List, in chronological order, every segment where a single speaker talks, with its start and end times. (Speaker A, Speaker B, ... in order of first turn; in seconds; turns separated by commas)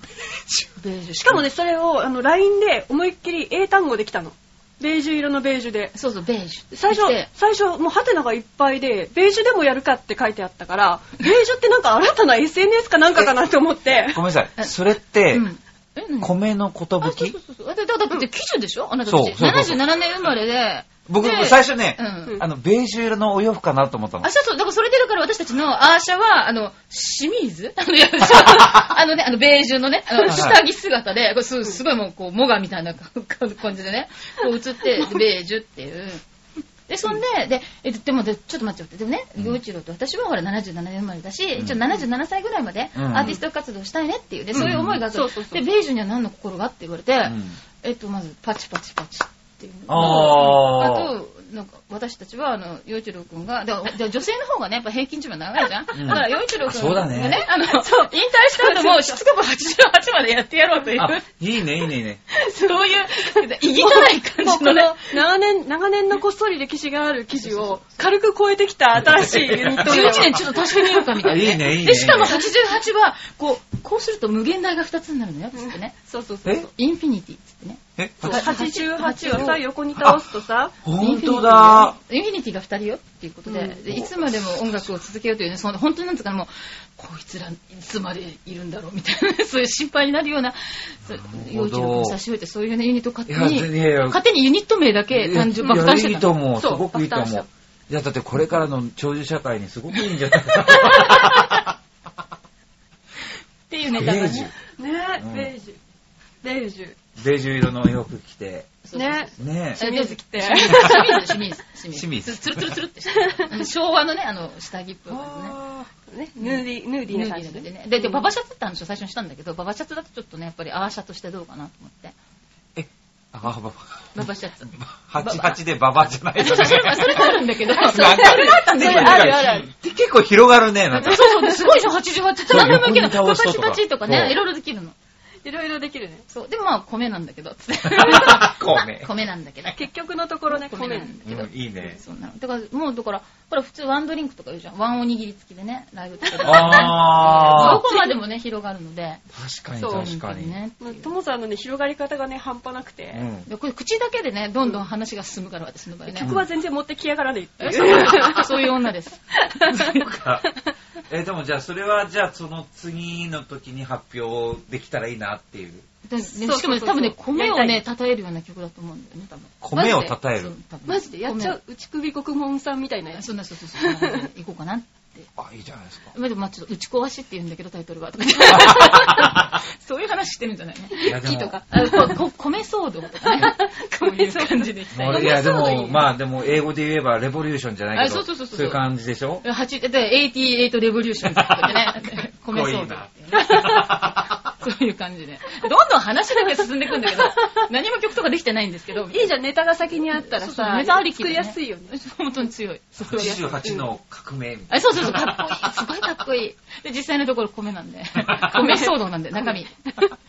Speaker A: 0.8-1.4, Speaker B: 1.2-6.0, Speaker A: 6.0-7.3, Speaker B: 6.7-14.2, Speaker C: 14.1-15.5, Speaker A: 15.3-16.3, Speaker C: 16.2-17.4, Speaker A: 17.0-22.4, Speaker C: 19.1-19.8, Speaker C: 21.1-24.3, Speaker A: 24.2-36.2, Speaker C: 28.6-28.9, Speaker C: 30.2-30.6, Speaker A: 36.9-61.2, Speaker C: 43.0-43.4, Speaker B: 43.2-43.4, Speaker B: 44.5-45.6, Speaker C: 44.6-45.0, Speaker C: 47.3-47.6, Speaker C: 49.9-51.1, Speaker B: 50.0-50.4, Speaker C: 55.9-57.5, Speaker B: 57.3-59.2, Speaker C: 61.0-62.2, Speaker A: 62.4-65.2, Speaker B: 62.6-71.5, Speaker A: 67.5-67.8, Speaker C: 69.1-70.4, Speaker A: 69.7-76.0, Speaker C: 71.2-72.3, Speaker B: 75.5-76.7, Speaker A: 76.7-79.6, Speaker C: 78.0-78.5, Speaker B: 78.2-80.8, Speaker C: 80.0-80.3, Speaker C: 80.8-82.0, Speaker A: 81.0-96.3, Speaker B: 83.5-83.8, Speaker C: 91.2-92.2, Speaker C: 93.3-94.2, Speaker C: 95.1-101.6, Speaker B: 95.6-95.9, Speaker B: 96.6-97.5, Speaker A: 103.7-104.5, Speaker C: 103.9-104.5, Speaker B: 104.8-105.8, Speaker C: 105.2-105.5, Speaker B: 106.4-107.0, Speaker C: 107.2-108.8, Speaker A: 108.8-115.6, Speaker B: 109.0-111.5, Speaker C: 109.4-109.8, Speaker C: 111.9-112.8, Speaker B: 113.2-113.7, Speaker C: 115.1-115.9, Speaker B: 115.9-118.3, Speaker A: 116.4-122.1, Speaker C: 122.8-131.4, Speaker A: 124.2-125.6, Speaker A: 126.4-129.6, Speaker B: 127.2-129.7, Speaker A: 130.9-134.9, Speaker B: 131.1-131.7, Speaker C: 132.5-134.4, Speaker B: 135.4-136.3, Speaker A: 136.3-139.8, Speaker C: 137.9-139.1, Speaker B: 139.7-141.1, Speaker A: 140.5-149.2, Speaker C: 141.2-142.0, Speaker B: 146.3-148.2, Speaker C: 146.4-147.8, Speaker C: 149.3-150.6, Speaker B: 149.8-150.1, Speaker A: 149.9-151.1, Speaker B: 150.8-153.3, Speaker C: 153.1-153.5, Speaker A: 153.5-156.3, Speaker B: 156.1-158.8, Speaker C: 156.2-156.5, Speaker A: 157.6-160.1, Speaker C: 157.8-158.3, Speaker B: 159.5-159.9, Speaker C: 159.9-160.5, Speaker C: 161.1-165.9, Speaker A: 166.1-171.6, Speaker B: 166.2-167.8, Speaker C: 169.6-170.5, Speaker B: 170.9-174.3, Speaker A: 173.1-175.3, Speaker C: 175.4-176.1, Speaker A: 176.1-186.0, Speaker C: 178.6-179.4, Speaker C: 181.0-181.6, Speaker B: 181.7-182.2, Speaker B: 183.2-186.1, Speaker C: 184.9-189.4, Speaker A: 187.9-188.8, Speaker A: 189.4-194.0, Speaker C: 192.5-194.5, Speaker B: 193.5-193.8, Speaker A: 194.5-199.3, Speaker B: 196.9-197.5, Speaker B: 199.1-201.9, Speaker A: 200.1-203.5, Speaker C: 203.0-205.7, Speaker B: 203.1-203.9, Speaker A: 204.7-209.8, Speaker C: 208.2-208.5, Speaker B: 208.5-210.1